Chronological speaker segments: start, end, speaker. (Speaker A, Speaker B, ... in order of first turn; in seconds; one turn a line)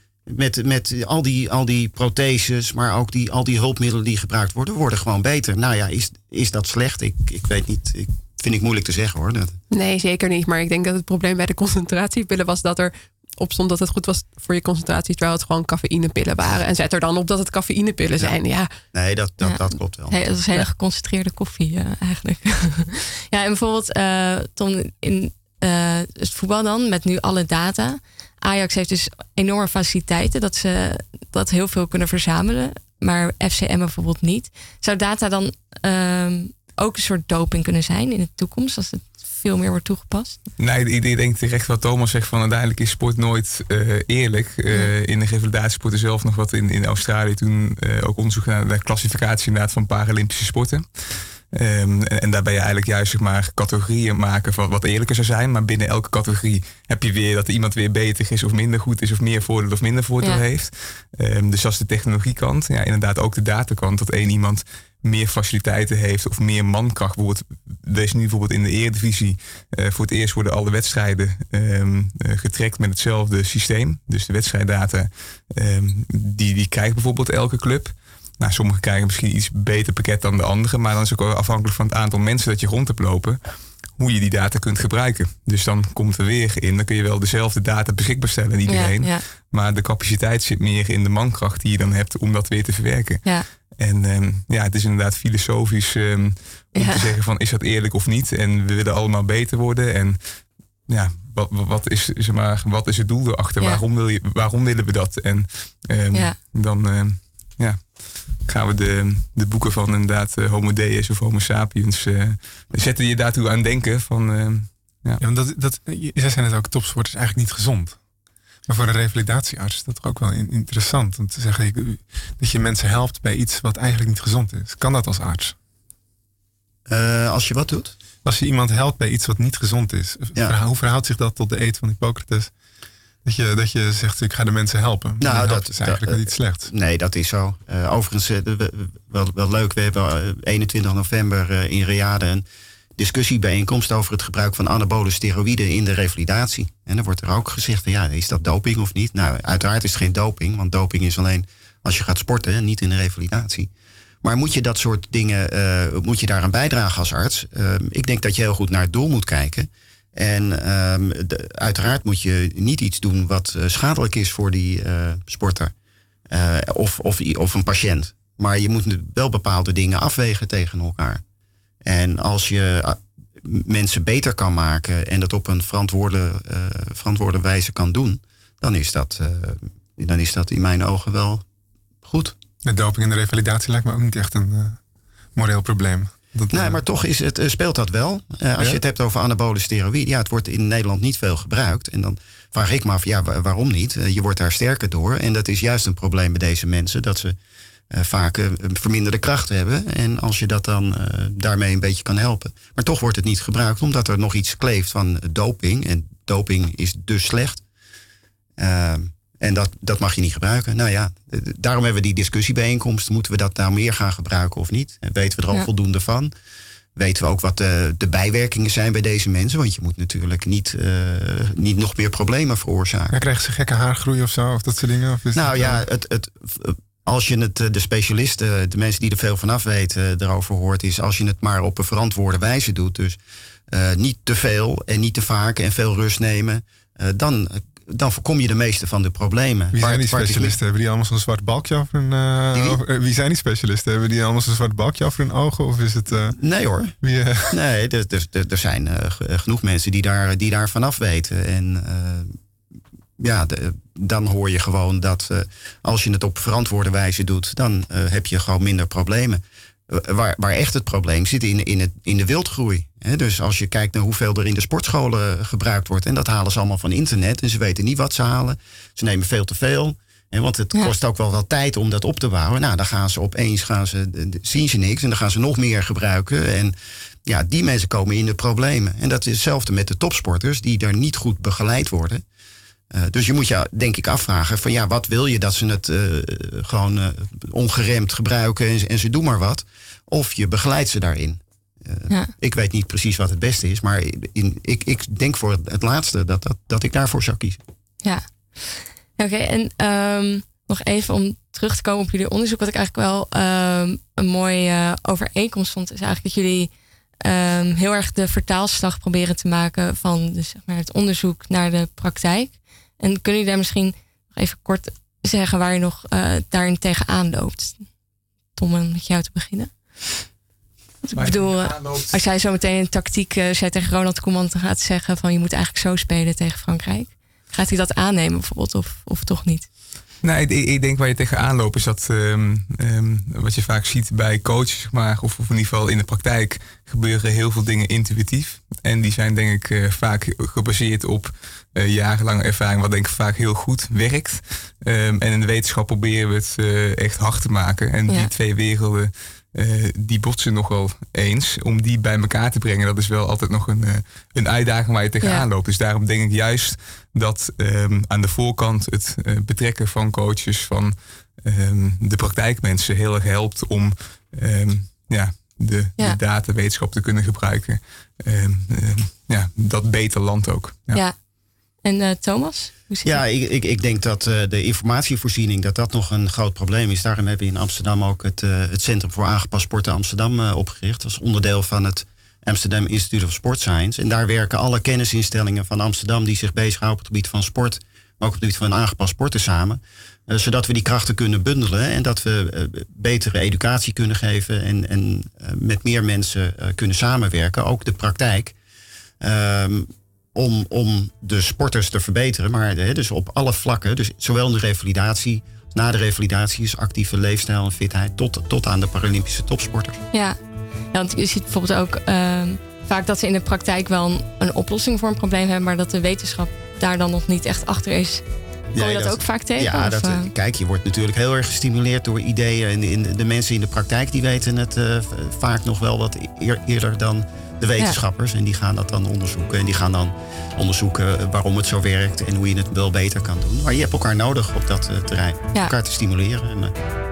Speaker A: 0.3-9.6
Speaker B: 9.7-18.7
Speaker A: 18.9-20.2
Speaker C: 19.4-40.4
Speaker D: 40.6-115.2
Speaker C: 88.7-89.2
Speaker C: 96.8-97.1
Speaker E: 115.2-118.0
Speaker E: 118.7-125.5
Speaker A: 126.9-127.9
Speaker E: 128.2-132.5
Speaker E: 133.2-136.7
Speaker A: 135.2-142.4
Speaker A: 143.0-153.7
Speaker A: 154.2-165.7
Speaker A: 166.3-171.2
Speaker A: 171.8-181.4
Speaker A: 182.1-182.3
Speaker E: 182.7-184.8
Speaker E: 185.3-186.8
Speaker A: 186.5-197.3
Speaker A: 197.9-207.6
Speaker A: 208.6-216.3
Speaker A: 217.0-223.2
Speaker E: 223.1-225.8
Speaker A: 225.3-233.2
Speaker A: 233.7-240.6
Speaker E: 239.7-246.4
Speaker A: 242.5-242.8
Speaker A: 246.4-247.0
Speaker E: 247.0-247.6
Speaker A: 247.5-252.3
Speaker A: 253.2-282.2
Speaker A: 282.9-297.6
Speaker C: 298.0-306.7
Speaker C: 307.2-317.9
Speaker C: 318.6-319.7
Speaker C: 321.0-329.7
Speaker D: 321.1-322.2
Speaker D: 330.2-371.0
Speaker C: 371.8-373.2
Speaker A: 373.0-398.6
Speaker A: 399.2-410.0
Speaker C: 410.1-410.4
Speaker C: 410.9-418.2
Speaker A: 418.8-436.7
Speaker C: 418.8-420.3